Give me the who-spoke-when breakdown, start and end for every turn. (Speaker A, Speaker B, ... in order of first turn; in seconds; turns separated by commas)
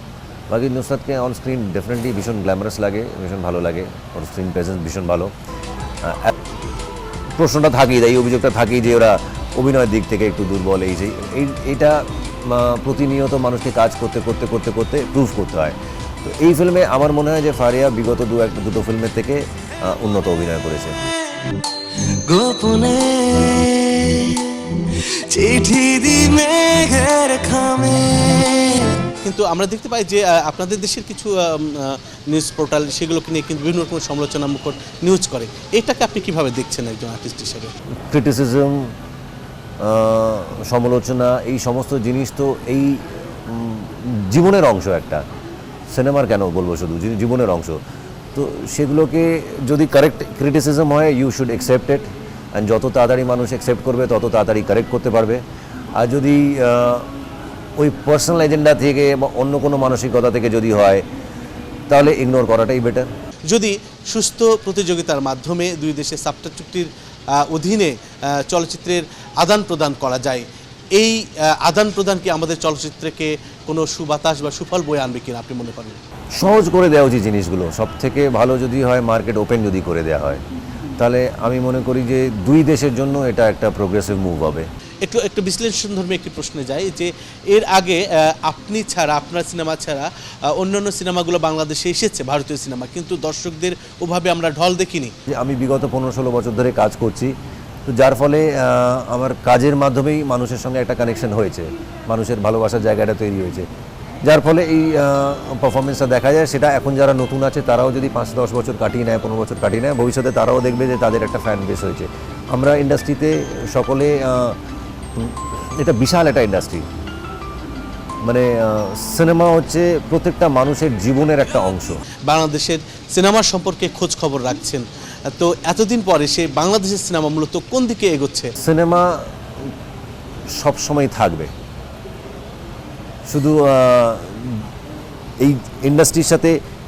Speaker A: 0.5-5.3, Speaker A: 6.0-6.3, Speaker A: 7.4-20.9, Speaker B: 22.3-29.0, Speaker C: 29.2-37.8, Speaker A: 38.1-38.9, Speaker A: 39.8-45.2, Speaker A: 45.9-47.8, Speaker A: 48.4-55.4, Speaker A: 56.0-57.1, Speaker A: 57.8-61.0, Speaker A: 61.9-63.1, Speaker C: 63.5-76.0, Speaker A: 76.4-80.4, Speaker A: 81.0-84.7, Speaker C: 85.0-95.1, Speaker A: 95.3-97.3, Speaker A: 97.9-103.7, Speaker A: 104.2-114.6, Speaker A: 115.2-116.8, Speaker A: 118.2-122.0, Speaker C: 122.3-128.5, Speaker A: 128.6-129.2, Speaker A: 130.6-131.5, Speaker A: 133.3-134.7, Speaker A: 135.4-136.6